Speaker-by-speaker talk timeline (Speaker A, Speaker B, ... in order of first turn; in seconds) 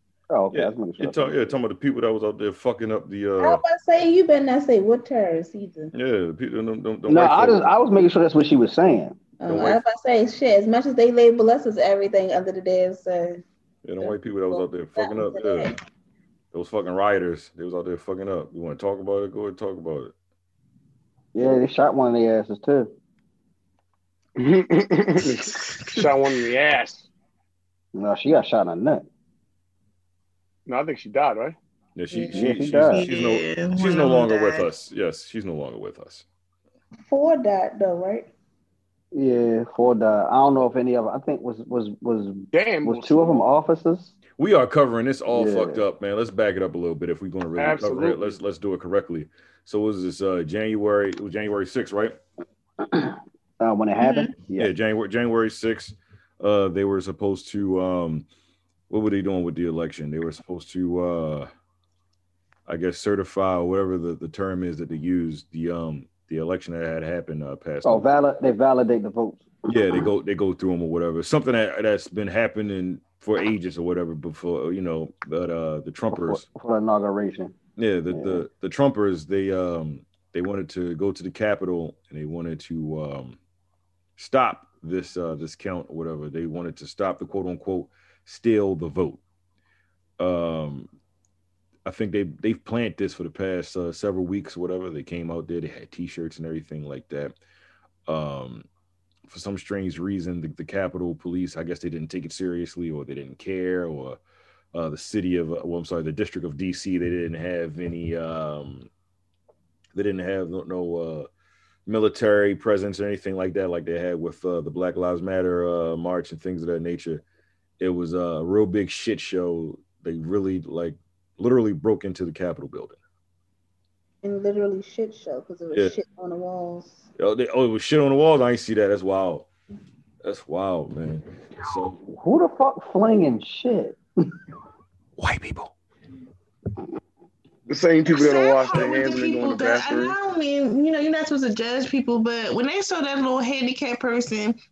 Speaker A: 0.3-1.6, 7.1-9.2, 21.4-22.9, 27.9-29.1, 32.3-33.1, 39.1-44.1, 45.3-45.9, 52.8-54.7, 67.8-70.1, 76.1-77.5, 78.1-78.5, 132.1-134.0
Speaker B: 0.5-3.6, 5.9-7.7, 9.5-9.8, 13.8-15.7, 16.5-20.1, 31.9-36.2, 44.4-52.2, 54.6-58.3, 58.9-61.5, 62.7-68.1, 69.7-76.4, 77.8-83.4, 84.2-89.2, 90.2-90.9, 91.8-97.4, 98.1-98.7, 99.3-104.2, 104.7-108.9, 109.9-111.3, 111.9-117.2, 117.8-123.0, 127.2-129.5, 130.2-132.0, 135.2-135.7
Speaker C: 3.4-5.9, 9.4-13.4, 14.0-15.8, 37.1-38.3, 124.2-127.1
Speaker D: 24.4-27.1, 30.6-31.6, 42.5-43.4, 47.6-48.4, 137.7-140.2
Speaker E: 25.8-26.1, 32.9-34.7, 54.0-54.3, 138.1-144.6